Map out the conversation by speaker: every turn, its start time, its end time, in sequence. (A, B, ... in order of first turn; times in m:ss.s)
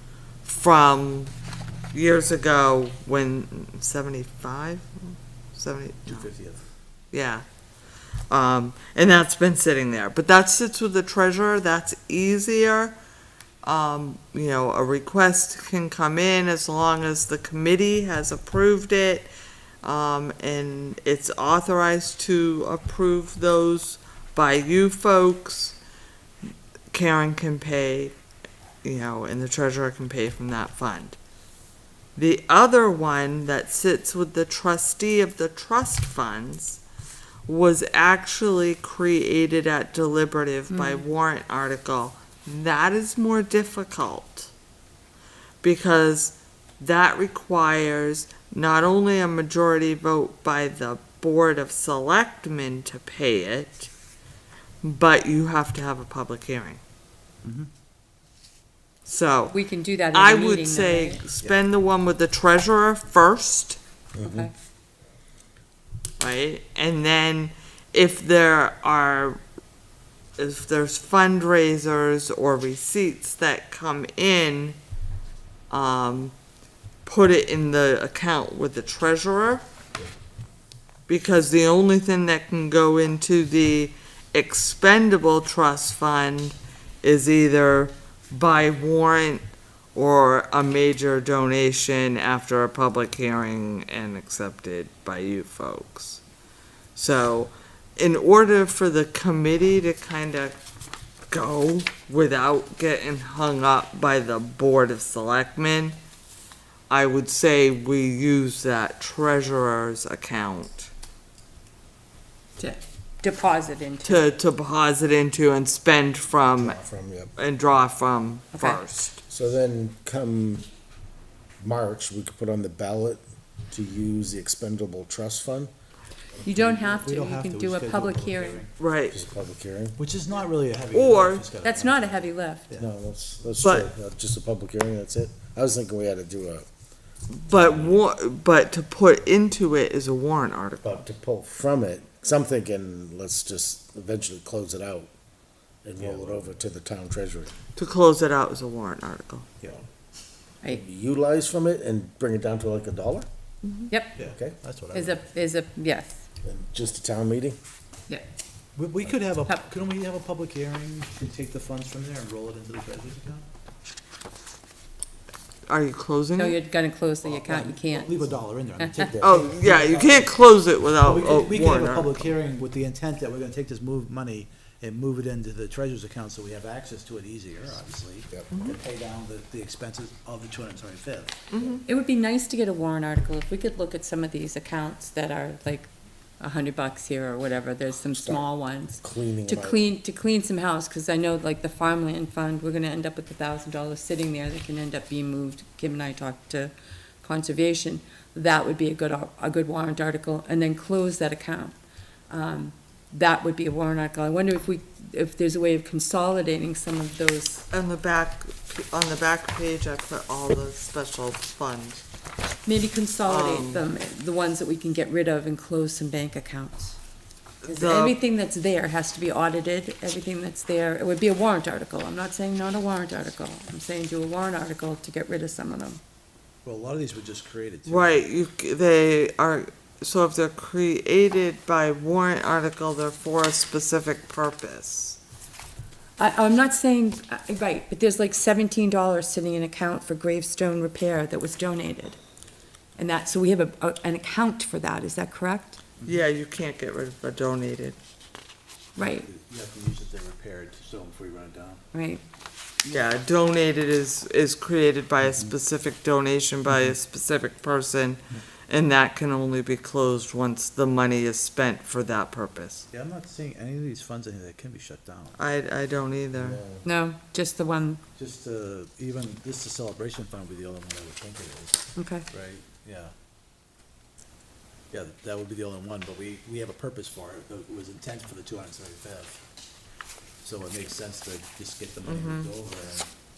0:00.4-0:01.3 A
0:01.9-0:06.3 A
0:06.1-0:06.7 B
0:07.1-0:07.4 A
0:08.3-0:13.0 A
0:13.6-0:19.3 A
0:19.8-0:25.8 A
0:26.9-0:28.2 A
0:28.8-0:31.2 A
0:32.2-0:36.8 A
0:37.5-0:44.5 A
0:40.7-0:41.0 C
0:45.6-0:53.9 A
0:54.8-0:56.8 A
0:57.4-0:57.7 B
0:59.1-1:03.8 A
0:59.5-1:01.2 C
1:04.2-1:04.5 D
1:04.2-1:04.5 C
1:06.2-1:09.4 A
1:10.4-1:14.8 A
1:15.7-1:16.4 A
1:17.0-1:19.6 A
1:21.1-1:36.2 A
1:37.0-1:40.6 A
1:41.3-1:46.0 A
1:46.9-1:50.9 A
1:52.6-1:54.3 C
1:54.0-1:56.8 A
1:56.6-1:57.3 D
1:57.4-1:59.2 A
1:58.5-1:58.8 C
1:59.3-2:00.7 D
2:01.6-2:05.7 D
2:06.4-2:08.7 C
2:06.4-2:08.7 B
2:08.8-2:09.2 A
2:09.1-2:10.0 D
2:10.0-2:12.9 B
2:10.9-2:11.4 A
2:11.6-2:12.7 C
2:12.8-2:16.7 D
2:13.6-2:13.9 A
2:17.3-2:21.1 A
2:17.5-2:18.0 D
2:20.8-2:25.1 D
2:25.8-2:27.5 D
2:26.0-2:26.7 B
2:27.8-2:29.5 A
2:30.7-2:33.3 D
2:33.8-2:34.2 C
2:34.2-2:35.3 B
2:34.2-2:34.6 D
2:34.9-2:36.2 C
2:36.4-2:37.6 D
2:38.8-2:43.5 B
2:45.7-2:46.6 A
2:46.4-2:48.2 C
2:47.2-2:50.4 B
2:49.2-2:52.3 A
2:51.0-3:01.4 B
2:58.5-2:58.8 A
3:01.5-3:01.8 A
3:01.9-3:21.8 C
3:08.1-3:08.5 D
3:09.0-3:09.9 D
3:22.3-3:27.7 C
3:27.7-3:32.0 A
3:32.7-3:37.0 C
3:33.2-3:33.8 A
3:37.6-3:38.2 A
3:37.7-3:46.0 C
3:46.6-3:48.2 B
3:47.9-3:55.2 A
3:56.2-4:02.2 C
4:03.0-4:05.8 C
4:06.0-4:08.0 A
4:09.0-4:09.3 C
4:09.0-4:11.8 B
4:11.9-4:12.2 C
4:12.9-4:22.9 A
4:15.2-4:15.5 B
4:16.7-4:17.0 B
4:22.9-4:25.4 B
4:25.4-4:26.6 A
4:26.4-4:26.9 D
4:26.8-4:28.0 C
4:28.2-4:33.1 B
4:32.0-4:32.3 C
4:34.9-4:39.4 B
4:40.4-4:43.1 B
4:42.1-4:42.5 A